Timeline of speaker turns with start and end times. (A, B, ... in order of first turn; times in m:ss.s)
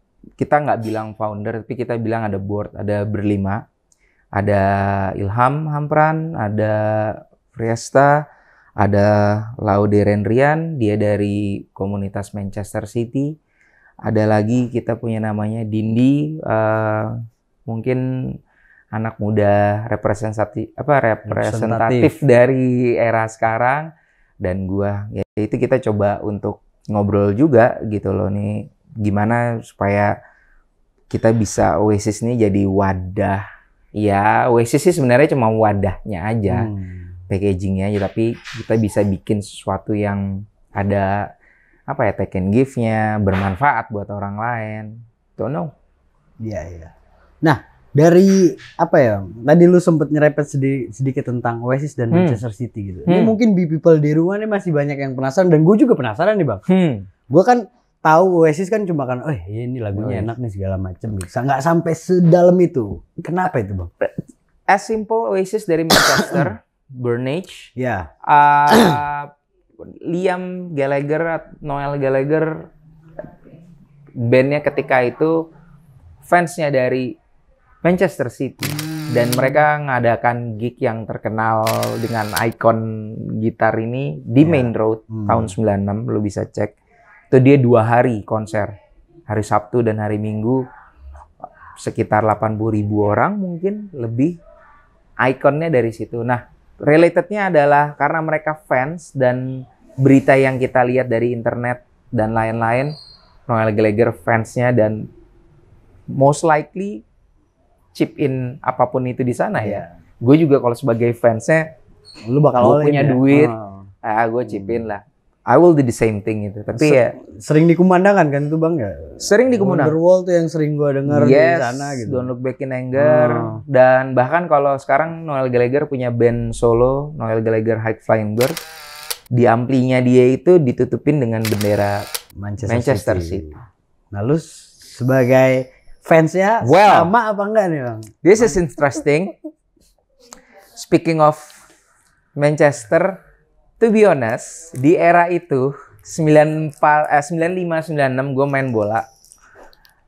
0:00.4-0:03.6 A
0:04.3-0:08.2 A
0:08.8-0:13.3 A
0:14.0-0:18.0 A
0:18.9-0:23.9 A
0:21.2-0:22.1 B
0:24.4-0:30.1 A
0:31.1-0:33.4 A
0:34.0-0:36.7 A
0:36.5-0:37.1 B
0:37.3-0:41.3 A
0:41.9-0:45.7 A
0:46.4-0:46.9 B
0:47.4-0:56.6 B
0:52.1-0:52.4 A
0:53.1-0:53.3 A
0:56.7-0:57.1 A
0:57.3-1:03.9 B
1:00.0-1:00.3 A
1:04.7-1:07.7 A
1:06.0-1:06.4 B
1:07.8-1:08.1 B
1:08.2-1:12.6 A
1:08.7-1:09.0 B
1:14.2-1:15.4 A
1:16.2-1:17.2 A
1:17.8-1:26.7 A
1:18.7-1:19.6 B
1:24.4-1:25.5 B
1:27.3-1:28.7 A
1:29.3-1:30.6 A
1:31.8-1:34.4 A
1:35.2-1:42.9 A
1:43.5-1:45.1 A
1:46.2-1:47.0 A
1:47.9-1:51.6 A
1:49.6-1:49.9 B
1:52.2-1:53.9 B
1:52.5-1:53.5 A
1:54.0-1:57.1 A
1:54.5-1:54.8 B
1:56.7-2:02.3 B
1:59.2-1:59.9 A
2:01.1-2:08.6 A
2:02.9-2:03.6 B
2:09.3-2:12.0 A
2:12.4-2:13.6 B
2:12.6-2:13.5 A
2:14.1-2:18.6 B
2:16.6-2:17.1 A
2:18.2-2:19.3 A
2:20.8-2:21.6 A
2:22.4-2:23.2 A
2:23.8-2:29.0 A